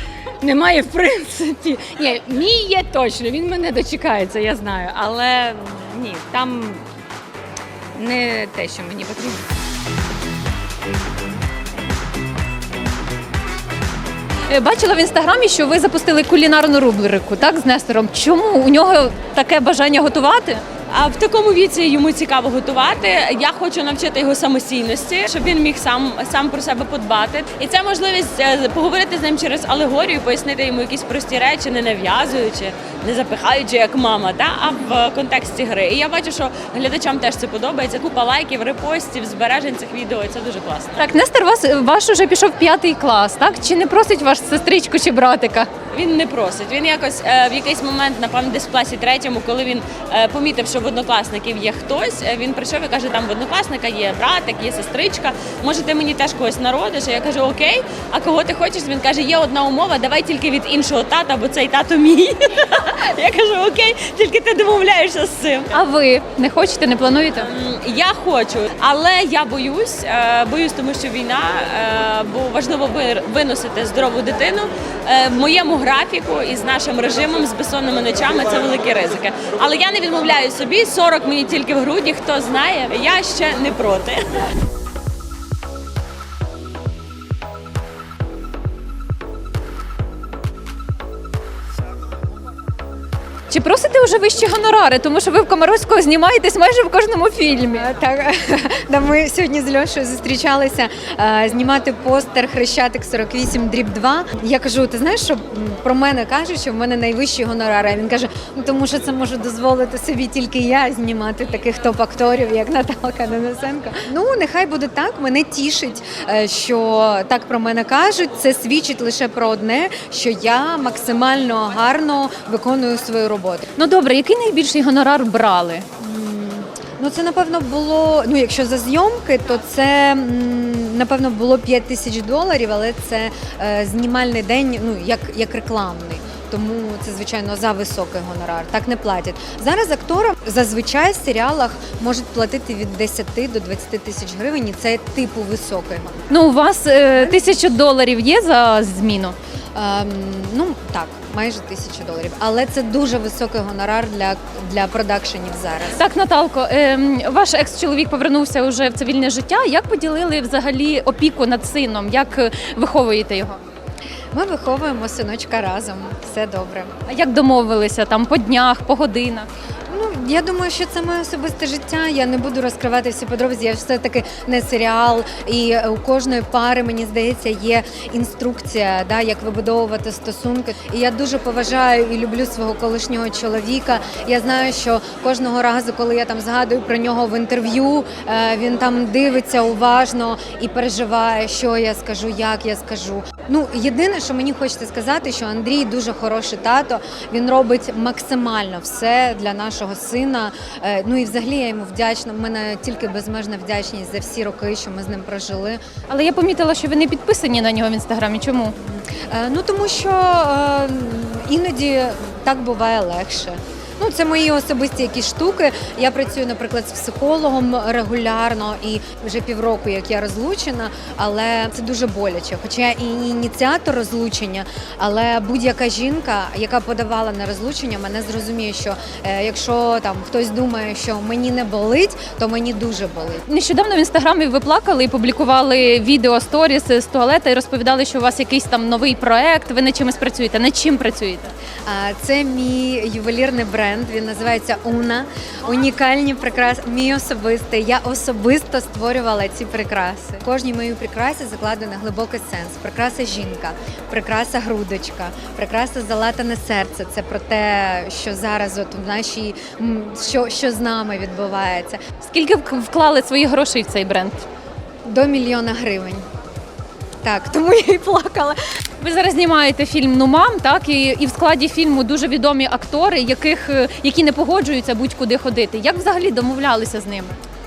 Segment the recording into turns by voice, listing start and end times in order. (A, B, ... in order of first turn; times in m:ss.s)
0:00.4-0:06.9 A
0:07.9-0:09.5 A
0:14.5-0:20.6 B
0:20.9-0:41.0 C
0:41.0-0:45.7 B
0:45.9-1:05.7 C
1:05.7-1:07.5 B
1:07.4-1:24.4 C
1:33.5-1:37.8 B
1:37.7-2:03.7 D
2:03.8-2:05.8 B
2:06.0-2:26.2 D
2:26.3-2:29.3 B
2:29.7-2:36.0 D
2:36.0-2:43.6 B
2:44.3-2:46.9 D
2:47.1-2:49.5 B
2:49.9-3:25.8 D
3:26.1-3:28.7 B
3:28.8-3:53.4 D
3:53.5-4:01.5 B
4:01.8-4:22.0 D
4:22.2-4:24.4 B
4:25.0-4:26.2 D
4:27.2-4:28.6 D
4:29.0-4:37.4 B